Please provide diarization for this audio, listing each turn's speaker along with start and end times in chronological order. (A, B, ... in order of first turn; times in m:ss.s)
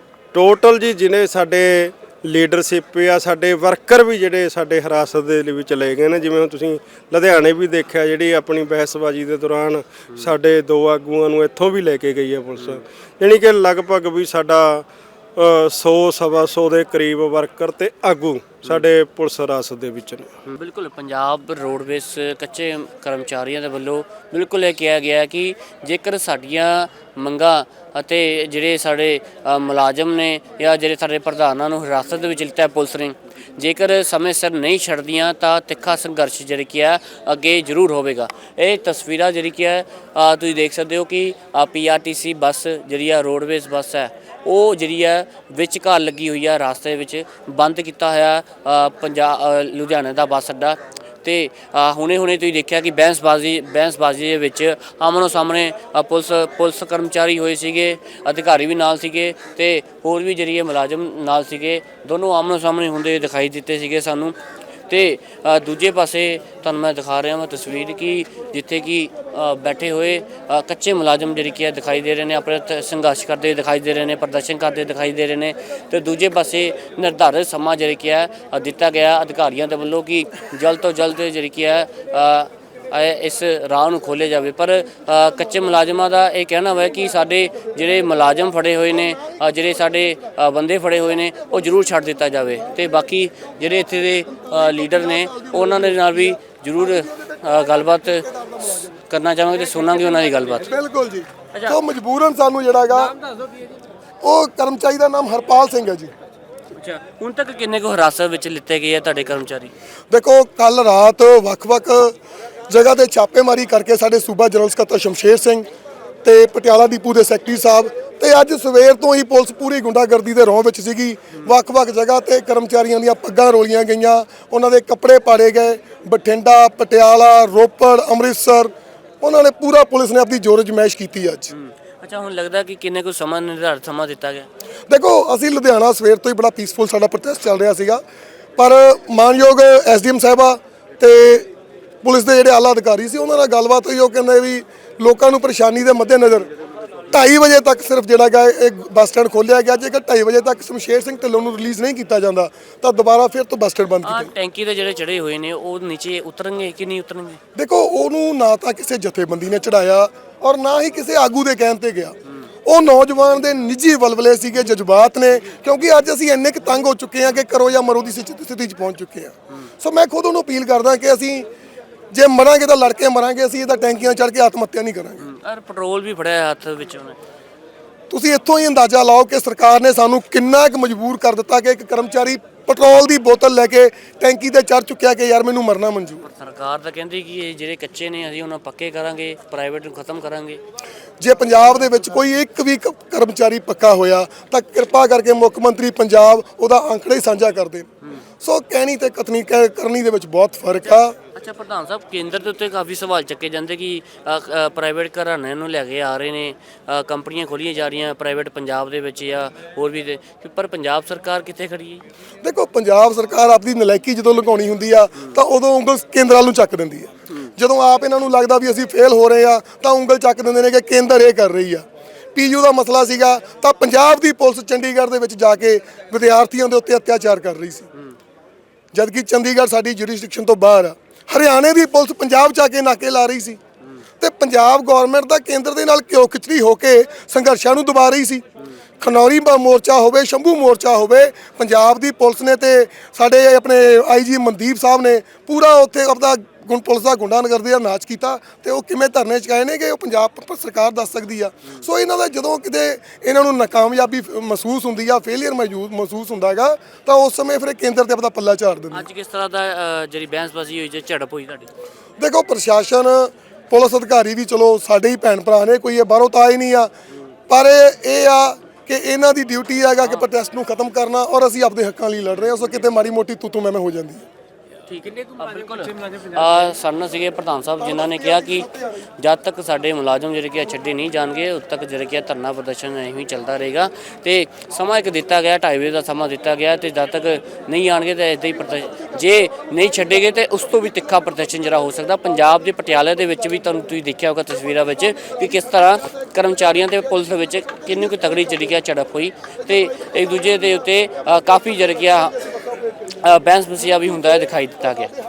0:00.3-0:20.3 A
0:20.4-1:04.4 B
1:04.9-1:38.2 B
1:35.3-1:36.1 C
1:36.9-1:38.9 C
1:38.8-1:40.7 B
1:40.6-1:43.2 C
1:44.2-1:46.1 C
1:46.7-1:49.7 B
1:50.1-1:52.2 C
1:52.7-1:55.7 C
1:56.2-2:11.5 C
2:11.5-2:14.5 B
2:14.9-2:18.0 C
2:18.6-2:21.5 C
2:22.0-2:26.5 C
2:27.1-2:34.3 C
2:34.0-2:37.4 B
2:37.5-2:51.5 C
2:52.1-2:55.2 C
2:55.2-2:57.2 B
2:58.1-3:06.2 C
3:06.2-3:10.6 B
3:11.2-3:17.9 C
3:18.4-3:21.1 C
3:21.3-3:32.0 B
3:32.4-3:47.9 C
3:48.9-3:53.6 C
3:54.2-3:58.4 C
3:59.0-4:19.0 C
4:18.9-4:21.7 B
4:22.2-4:26.9 C
4:27.5-4:34.2 C
4:34.9-5:02.5 B
4:37.8-4:39.0 C
5:03.1-5:05.1 B